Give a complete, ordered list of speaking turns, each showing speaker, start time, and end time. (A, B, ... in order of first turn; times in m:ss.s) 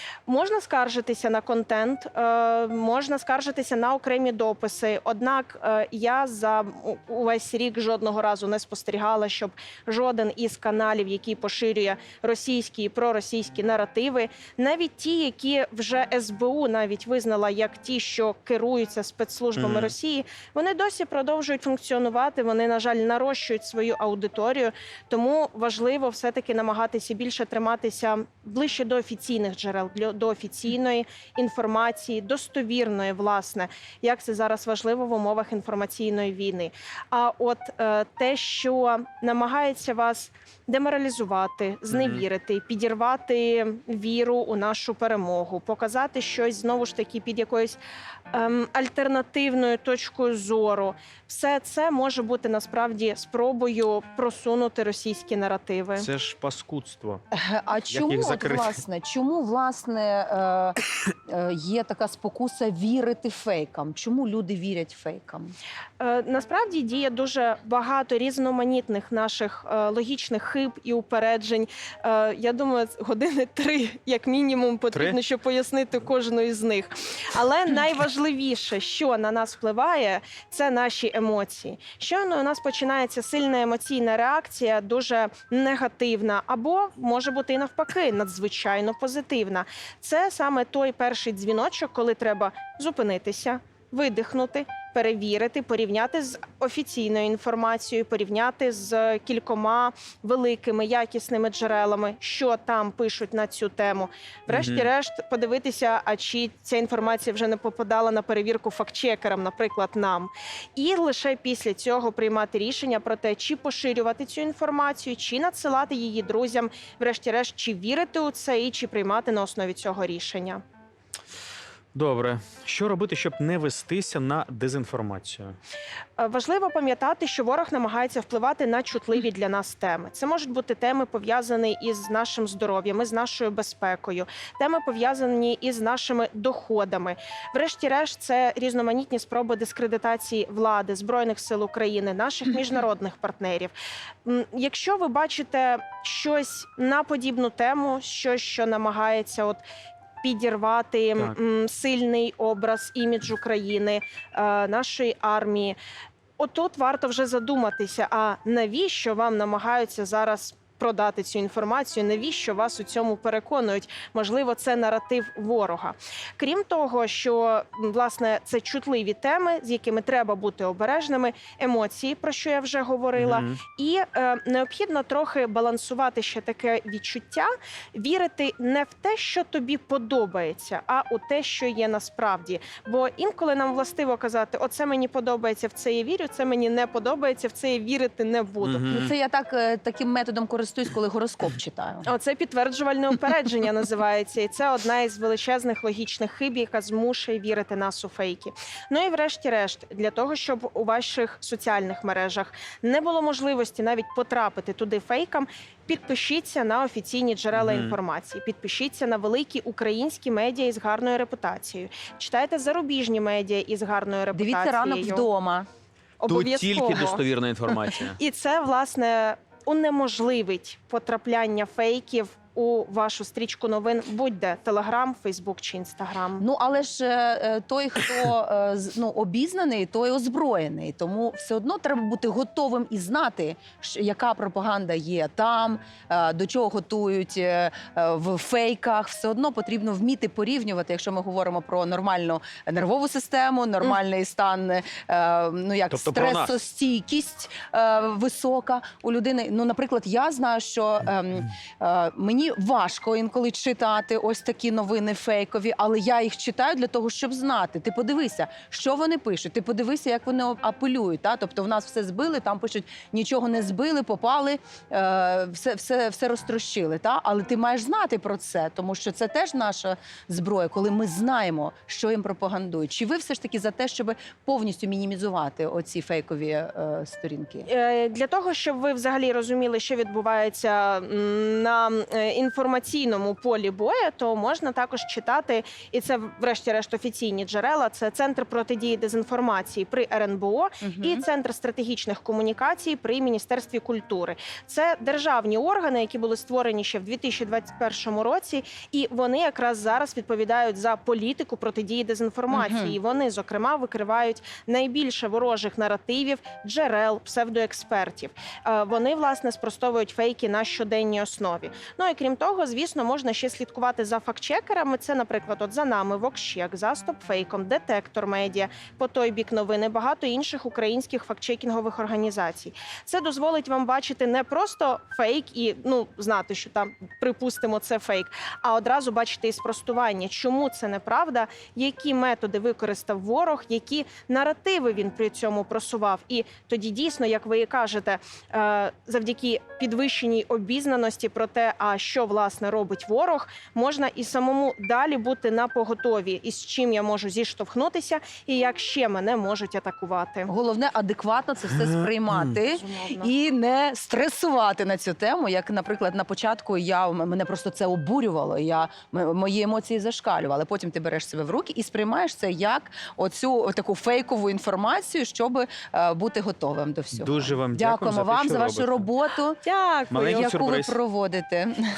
0:00.3-0:47.8 A
0:19.6-0:19.9 B
0:41.9-0:42.2 B
0:48.3-0:56.1 A
0:56.0-0:57.2 B
0:57.3-1:05.5 C
0:57.9-0:58.8 B
1:06.0-2:00.6 A
1:14.9-1:15.2 B
1:44.5-1:44.9 B
2:01.9-2:05.6 B
2:06.2-2:29.6 A
2:30.2-2:35.8 A
2:36.4-3:08.9 A
2:53.2-2:53.6 B
3:08.6-3:09.1 B
3:08.9-3:12.0 C
3:12.0-3:35.3 A
3:27.5-3:28.0 B
3:34.3-3:35.7 C
3:36.2-3:37.2 A
3:36.3-3:38.2 B
3:38.2-3:46.4 A
3:46.4-4:37.7 C
4:05.9-4:06.6 B
4:37.7-5:50.5 A
4:50.8-4:51.2 C
5:02.5-5:03.0 C
5:50.5-6:11.8 C
5:51.7-5:52.4 B
5:52.6-5:53.3 A
6:07.1-6:09.1 B
6:09.6-6:10.5 A
6:10.1-6:11.0 B